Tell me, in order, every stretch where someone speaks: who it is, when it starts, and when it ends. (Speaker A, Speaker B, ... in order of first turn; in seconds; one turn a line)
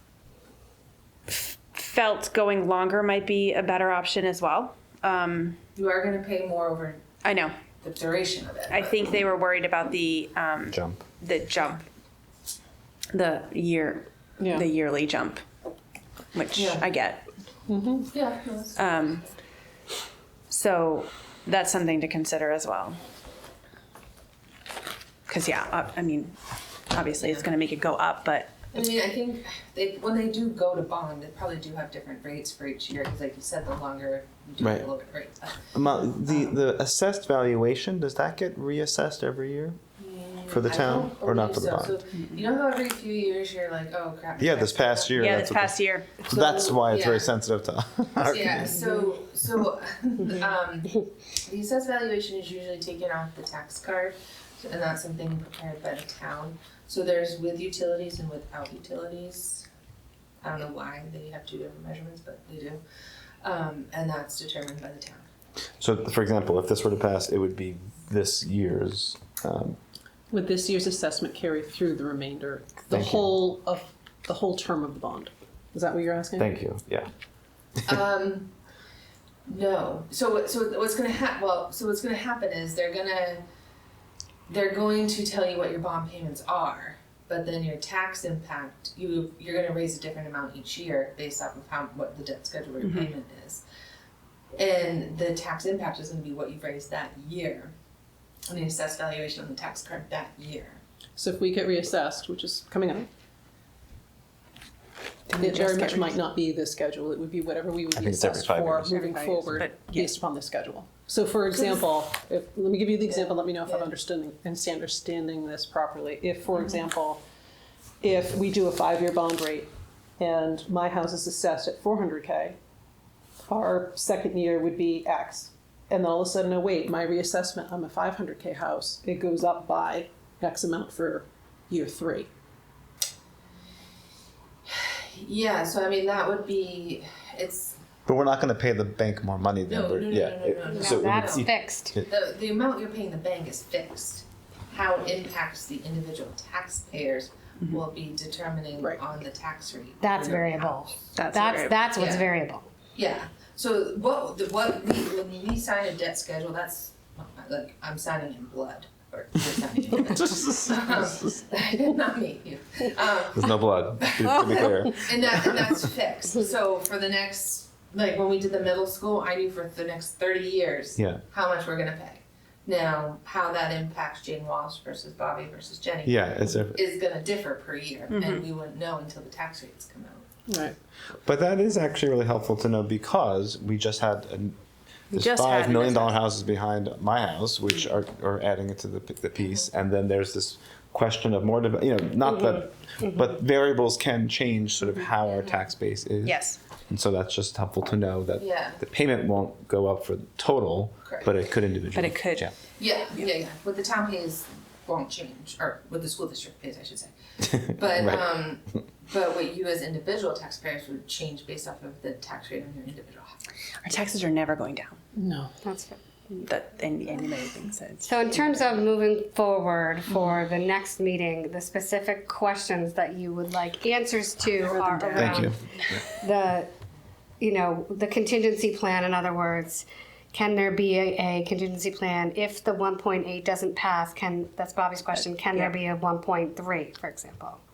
Speaker A: 1.3-5.6
Speaker B: 5.8-7.0
Speaker A: 7.2-7.5
Speaker B: 7.8-9.0
Speaker A: 8.7-11.8
Speaker C: 10.7-11.0
Speaker A: 13.1-15.4
Speaker D: 14.4-14.7
Speaker A: 16.3-17.2
Speaker B: 16.6-16.9
Speaker D: 17.7-18.1
Speaker B: 18.1-18.9
Speaker A: 18.8-19.2
Speaker A: 20.5-23.0
Speaker A: 25.3-26.4
Speaker A: 26.9-28.6
Speaker B: 27.2-27.5
Speaker B: 28.7-36.6
Speaker C: 34.6-34.9
Speaker C: 35.7-39.8
Speaker B: 40.0-45.3
Speaker C: 40.5-42.0
Speaker C: 44.4-48.8
Speaker A: 45.2-46.1
Speaker B: 46.2-47.3
Speaker B: 48.2-59.7
Speaker B: 60.4-62.8
Speaker B: 63.4-65.3
Speaker C: 65.8-69.8
Speaker D: 70.3-76.5
Speaker C: 72.9-73.3
Speaker C: 76.4-77.1
Speaker B: 77.9-78.5
Speaker B: 79.5-83.4
Speaker B: 84.5-93.6
Speaker A: 92.8-93.1
Speaker B: 94.6-97.7
Speaker B: 98.5-100.8
Speaker D: 101.2-103.1
Speaker A: 105.3-106.2
Speaker D: 105.4-117.2
Speaker C: 108.0-108.9
Speaker A: 108.9-110.2
Speaker D: 118.0-122.6
Speaker D: 123.5-132.3
Speaker B: 134.7-137.8
Speaker C: 138.1-142.1
Speaker B: 139.7-150.9
Speaker E: 140.7-142.0
Speaker E: 150.0-152.7
Speaker A: 151.2-151.9
Speaker B: 151.9-152.3
Speaker B: 152.9-180.3
Speaker C: 160.1-160.8
Speaker C: 163.3-165.7
Speaker C: 171.0-171.2
Speaker C: 176.1-176.8
Speaker A: 178.1-178.4
Speaker D: 180.5-180.8
Speaker C: 181.2-184.6
Speaker C: 185.1-202.5
Speaker A: 185.1-186.2
Speaker E: 192.3-193.2
Speaker B: 195.4-195.7
Speaker A: 196.2-196.6
Speaker B: 198.4-198.8
Speaker B: 201.1-201.3
Speaker A: 201.9-202.5
Speaker B: 202.8-213.4
Speaker C: 207.4-208.2
Speaker A: 213.8-215.0
Speaker D: 215.1-215.5
Speaker E: 215.6-216.0
Speaker A: 216.4-218.8
Speaker E: 218.0-225.5
Speaker A: 224.7-225.9
Speaker C: 225.2-225.6
Speaker E: 226.2-226.7
Speaker E: 227.4-237.6